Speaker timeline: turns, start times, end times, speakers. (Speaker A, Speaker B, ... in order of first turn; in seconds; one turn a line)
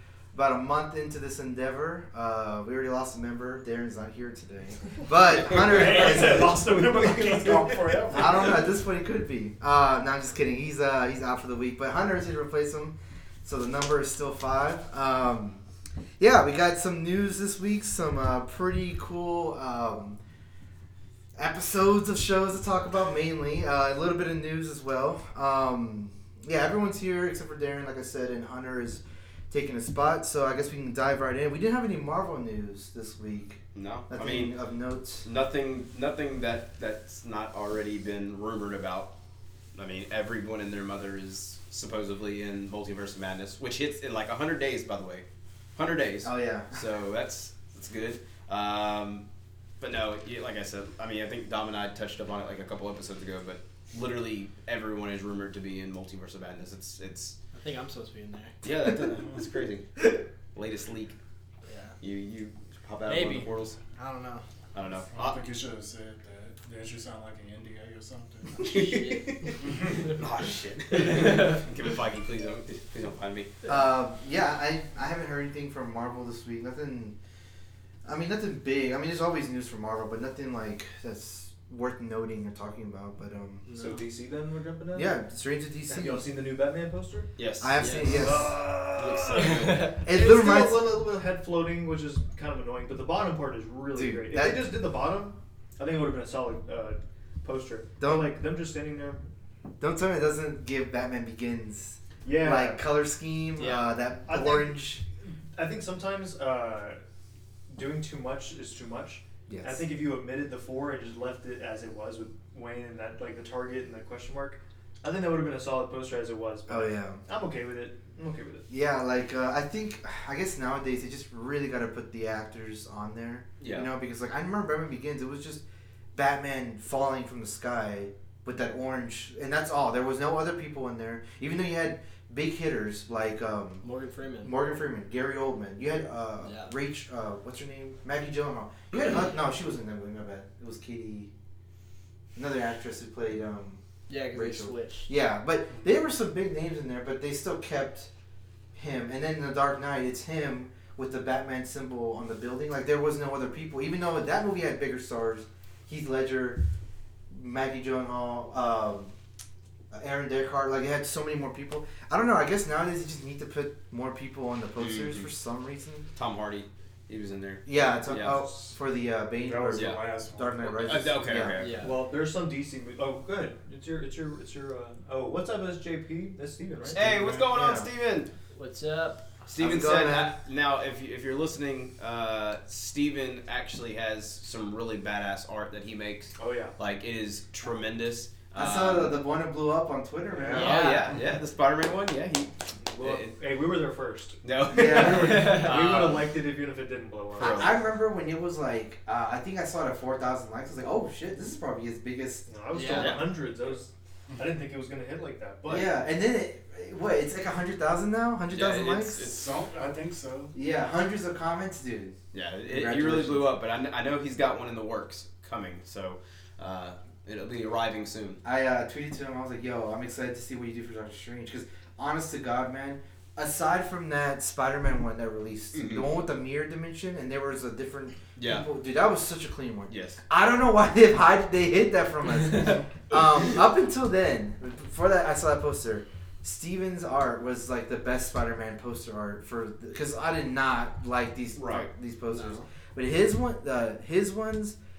Speaker A: 0.3-6.7
Speaker B: 5.3-6.4
Speaker C: 5.5-8.7
Speaker D: 5.9-7.7
Speaker A: 8.1-15.6
Speaker A: 16.2-20.2
Speaker A: 21.4-35.3
Speaker B: 33.7-34.5
Speaker B: 35.2-39.1
Speaker B: 39.7-45.2
Speaker B: 45.8-49.2
Speaker A: 46.2-46.8
Speaker B: 49.8-57.4
Speaker E: 57.5-58.5
Speaker B: 58.6-61.1
Speaker E: 61.6-62.0
Speaker B: 62.0-63.8
Speaker E: 63.0-64.4
Speaker B: 64.7-65.4
Speaker C: 65.1-68.7
Speaker B: 68.6-73.5
Speaker E: 68.6-70.1
Speaker C: 69.6-70.1
Speaker E: 71.0-71.6
Speaker A: 73.7-77.2
Speaker A: 78.0-83.7
Speaker E: 83.7-84.0
Speaker D: 83.8-85.2
Speaker A: 84.9-86.2
Speaker D: 85.8-87.3
Speaker B: 87.4-88.3
Speaker A: 87.6-88.6
Speaker E: 87.8-88.3
Speaker D: 88.2-99.2
Speaker B: 88.9-89.9
Speaker E: 89.6-89.9
Speaker A: 89.9-90.8
Speaker A: 93.9-94.8
Speaker A: 98.0-98.3
Speaker A: 99.8-105.0
Speaker D: 102.2-102.8
Speaker E: 103.6-103.8
Speaker D: 104.2-107.0
Speaker D: 107.7-118.7
Speaker A: 109.5-109.8
Speaker A: 116.7-117.2
Speaker A: 118.7-125.6
Speaker B: 123.6-123.9
Speaker A: 126.1-133.8
Speaker E: 133.8-134.5
Speaker A: 134.4-141.3
Speaker E: 136.4-136.7
Speaker A: 142.3-143.8
Speaker E: 144.1-145.1
Speaker A: 144.3-148.1
Speaker A: 148.7-156.6
Speaker A: 157.3-159.1
Speaker A: 159.9-166.1
Speaker B: 164.8-165.3
Speaker B: 166.2-168.5
Speaker A: 167.6-171.6
Speaker C: 169.4-170.6
Speaker B: 169.7-170.0
Speaker B: 170.6-171.8
Speaker E: 171.6-171.9
Speaker D: 171.8-177.1
Speaker C: 176.9-177.5
Speaker B: 176.9-178.3
Speaker A: 177.3-177.9
Speaker E: 178.5-179.2
Speaker B: 179.4-189.2
Speaker A: 179.6-180.3
Speaker D: 186.4-186.7
Speaker A: 188.5-190.9
Speaker C: 190.3-190.7
Speaker E: 190.5-191.2
Speaker B: 190.5-193.3
Speaker D: 192.8-197.7
Speaker B: 194.4-196.3
Speaker A: 194.7-195.7
Speaker B: 197.3-197.7
Speaker A: 197.4-203.1
Speaker D: 202.5-205.9
Speaker E: 202.7-203.2
Speaker B: 202.9-203.3
Speaker C: 204.3-204.7
Speaker A: 205.6-209.2
Speaker B: 208.5-209.4
Speaker C: 209.2-210.5
Speaker A: 210.5-213.5
Speaker B: 212.3-218.4
Speaker A: 218.4-244.8
Speaker B: 225.7-226.1
Speaker B: 228.4-228.7
Speaker B: 229.9-230.2
Speaker B: 241.5-241.9
Speaker E: 242.3-242.6